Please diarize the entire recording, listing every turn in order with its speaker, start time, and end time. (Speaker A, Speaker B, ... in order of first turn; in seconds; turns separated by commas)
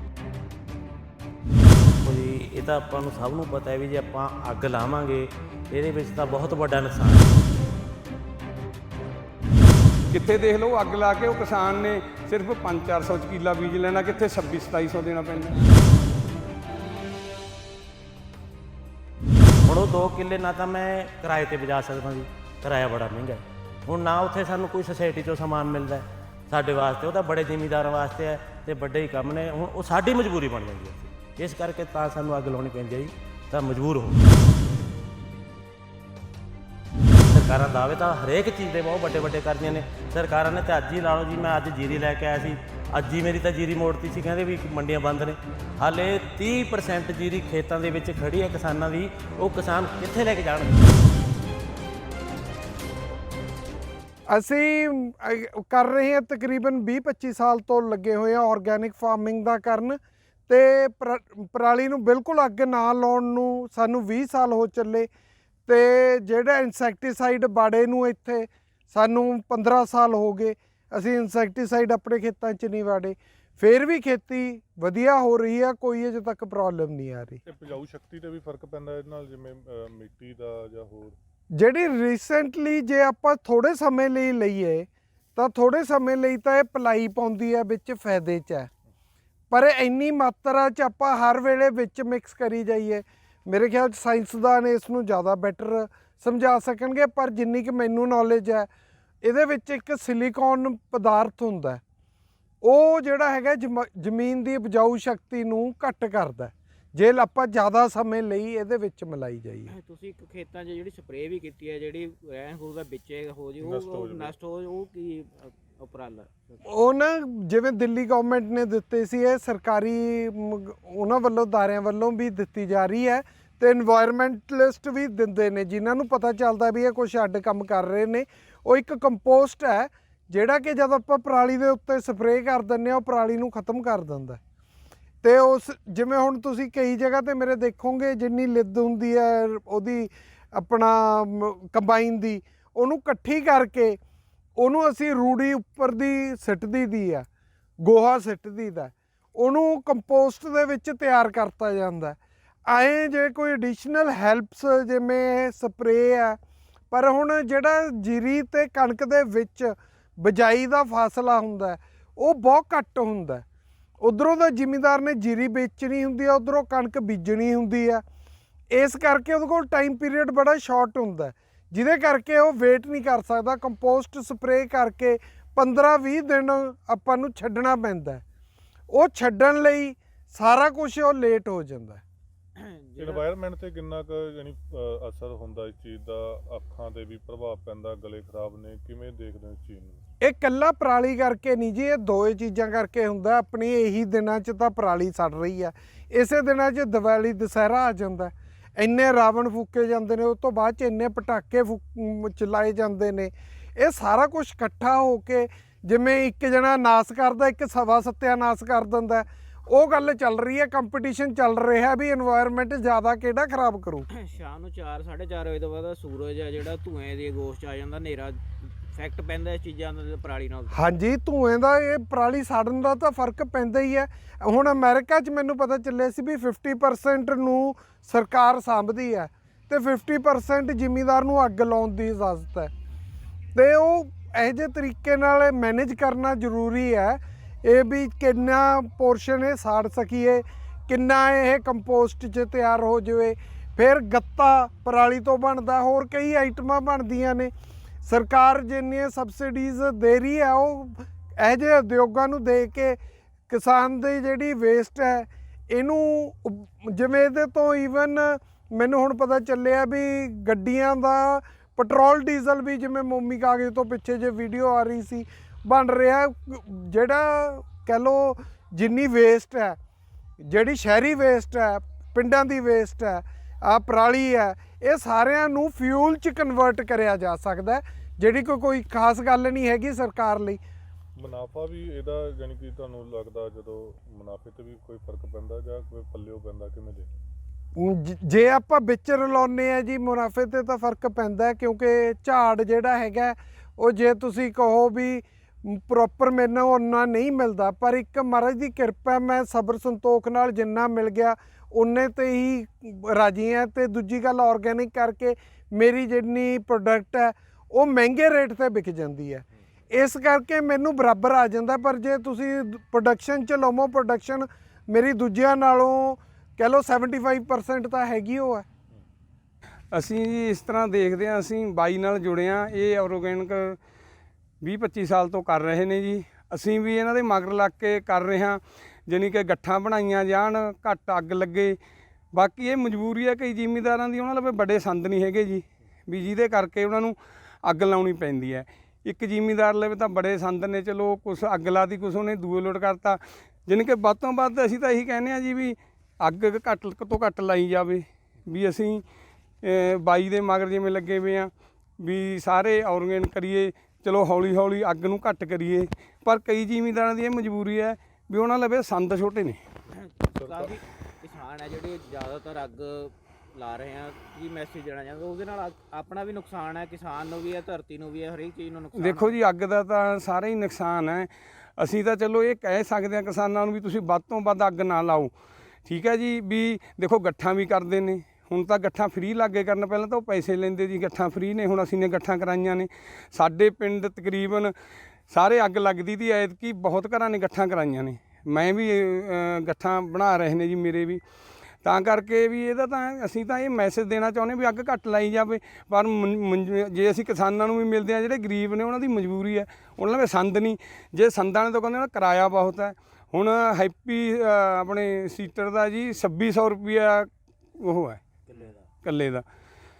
Speaker A: 2.0-7.4, Speaker B: 10.1-15.6, Speaker A: 19.6-34.3, Speaker A: 37.3-51.0, Speaker C: 54.3-65.1, Speaker C: 65.7-77.4, Speaker D: 77.5-81.2, Speaker C: 81.5-88.7, Speaker C: 89.5-98.7, Speaker C: 99.2-101.8, Speaker C: 102.6-109.7, Speaker E: 109.7-116.5, Speaker D: 113.6-114.3, Speaker C: 116.6-134.4, Speaker C: 135.2-144.0, Speaker C: 144.6-147.2, Speaker C: 147.8-156.4, Speaker C: 156.9-163.4, Speaker C: 164.0-168.0, Speaker C: 168.7-178.2, Speaker C: 178.9-182.0, Speaker E: 182.6-183.2, Speaker D: 183.0-190.0, Speaker C: 190.2-214.1, Speaker E: 214.1-218.4, Speaker E: 218.9-220.8, Speaker C: 220.7-232.7, Speaker C: 233.5-247.5, Speaker C: 248.0-253.0, Speaker C: 253.5-269.8, Speaker C: 270.4-280.6, Speaker D: 281.2-287.1, Speaker C: 287.8-318.6, Speaker B: 319.9-323.8, Speaker B: 324.6-331.8, Speaker B: 332.3-349.0, Speaker B: 349.6-359.6, Speaker E: 359.9-369.4, Speaker D: 360.3-360.8, Speaker B: 368.9-375.3, Speaker B: 375.9-384.7, Speaker B: 385.3-391.2, Speaker B: 391.8-408.2, Speaker E: 408.5-408.9, Speaker B: 409.0-409.4